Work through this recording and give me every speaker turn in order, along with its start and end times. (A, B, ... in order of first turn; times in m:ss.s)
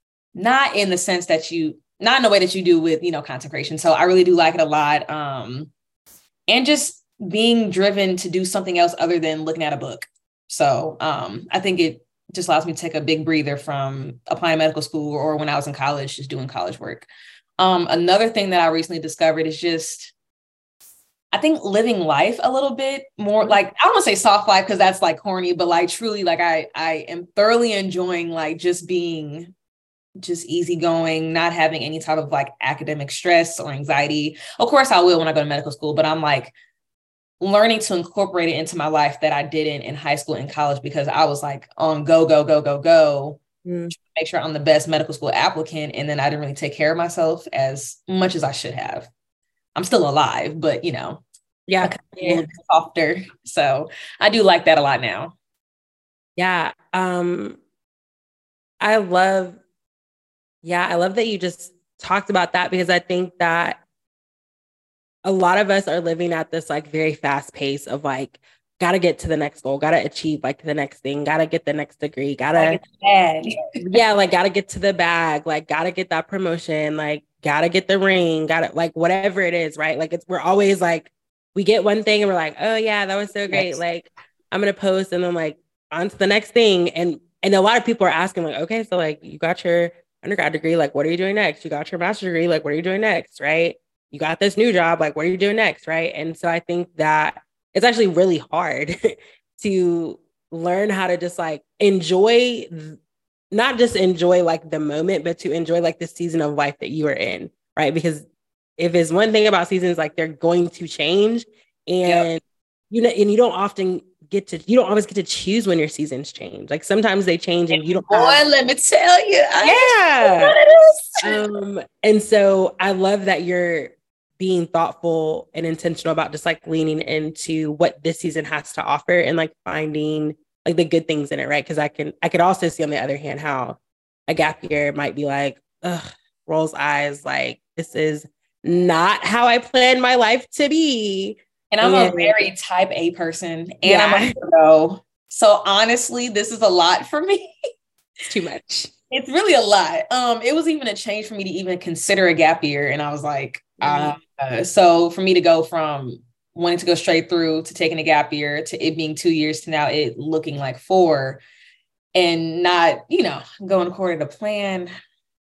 0:00.3-0:05.7 A
0:06.5-0:17.1 A
0:17.6-0:20.1 A
0:21.3-0:29.5 A
0:30.2-0:36.5 A
0:37.4-0:49.1 A
0:43.6-0:43.9 B
0:49.7-0:51.2 A
0:51.7-0:52.4 B
0:51.8-0:55.4 A
0:56.4-0:57.6 B
0:58.8-0:59.6 B
1:00.6-1:03.8 B
1:05.2-1:12.8 B
1:12.5-1:13.6 A
1:13.8-1:43.0 B
1:23.5-1:23.8 A
1:43.5-1:48.3 B
1:48.8-1:58.4 B
1:57.7-2:01.4 A
1:59.6-2:00.5 B
2:01.2-2:22.3 B
2:21.7-2:27.5 A
2:23.8-2:24.3 B
2:28.3-2:28.9 B
2:29.1-2:41.4 A
2:33.8-2:34.2 B
2:42.1-2:44.9 A